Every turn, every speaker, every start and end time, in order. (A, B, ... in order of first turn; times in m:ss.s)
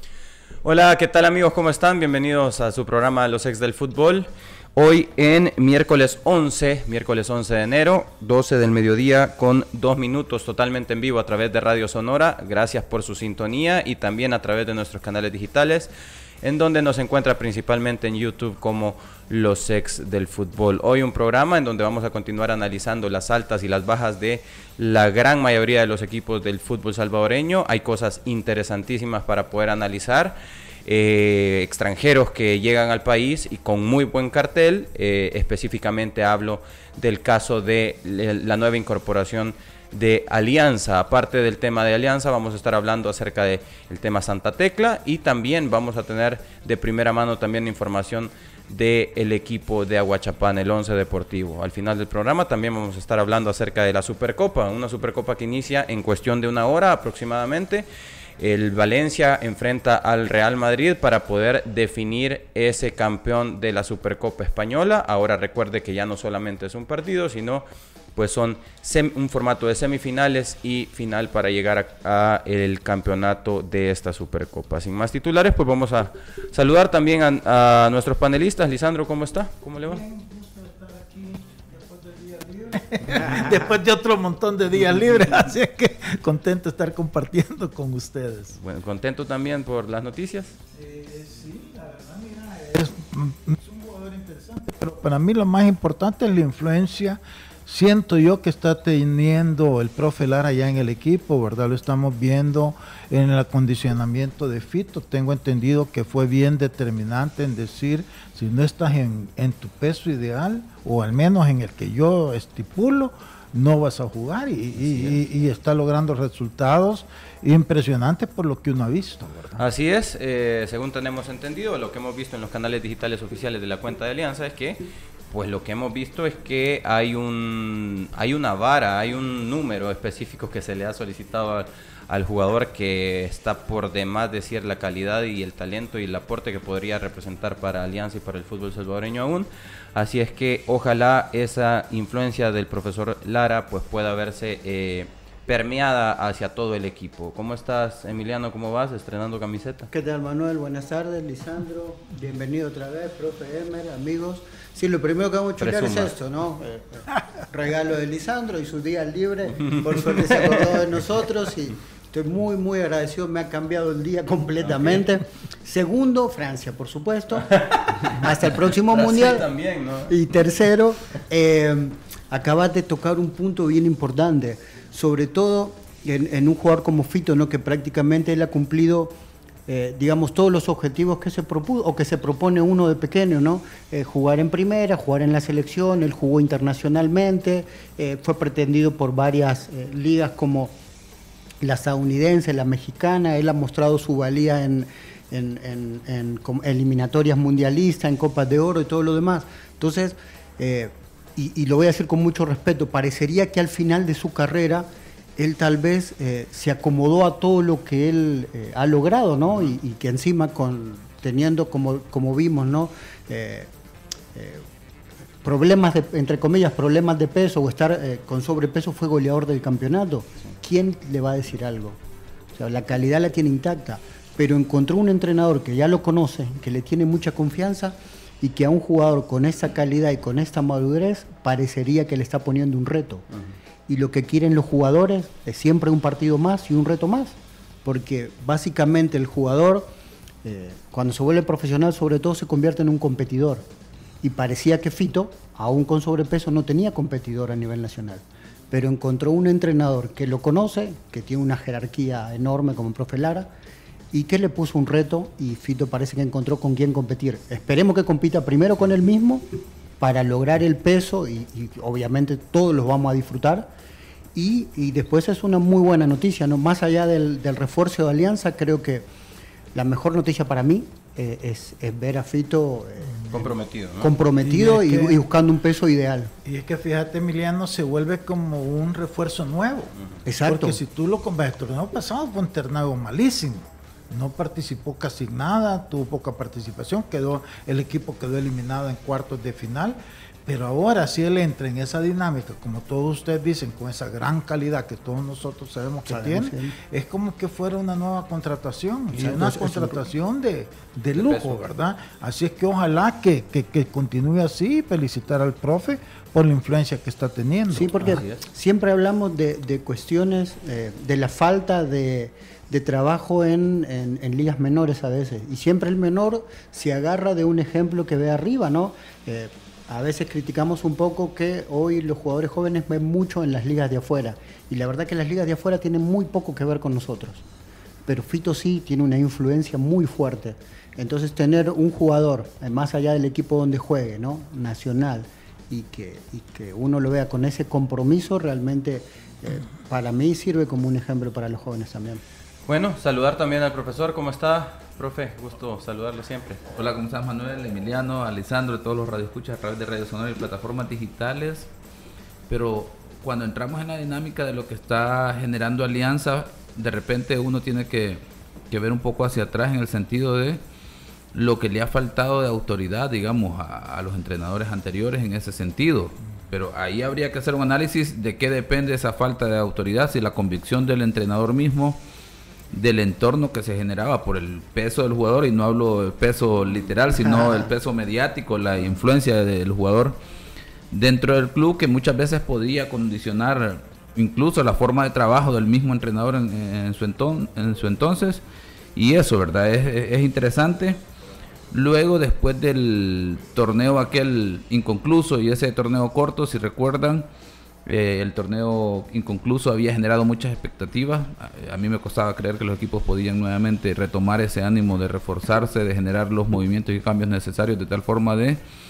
0:00.6-0:15.9 A
0:16.4-0:57.8 A
0:58.4-1:07.6 A
1:08.2-1:20.0 A
1:19.8-1:28.6 B
1:28.6-1:30.5 A
1:30.7-1:59.6 B
1:54.8-1:55.2 A
1:59.6-2:29.9 A
2:29.9-2:49.5 C
2:35.6-2:36.1 A
2:44.6-2:45.0 A
2:47.5-2:48.2 A
2:48.9-2:50.1 A
2:50.1-2:59.1 C
2:59.7-3:10.8 C
3:11.6-3:33.7 C
3:34.3-3:34.6 C
3:35.4-3:42.0 C
3:42.5-3:53.2 C
3:53.9-3:59.9 C
4:00.4-4:03.7 C
4:04.2-4:13.5 C
4:14.1-4:19.5 C
4:20.0-4:23.7 C
4:24.3-4:29.0 C
4:29.7-4:33.2 C
4:33.1-4:33.5 B
4:33.3-4:34.1 A
4:34.0-4:36.3 C
4:34.4-4:35.2 B
4:36.4-4:39.9 B
4:40.2-4:40.8 C
4:40.5-5:08.2 B
4:56.1-4:56.7 C
4:59.1-5:00.0 C
5:07.7-5:27.4 C
5:08.0-5:08.4 A
5:28.0-5:42.2 C
5:42.6-5:46.6 A
5:46.7-5:51.7 D
5:52.5-6:00.6 D
6:01.3-6:12.0 D
6:12.7-6:20.2 D
6:17.2-6:17.7 C
6:20.9-6:28.4 D
6:29.0-6:31.0 D
6:31.7-6:37.3 D
6:37.8-6:48.6 D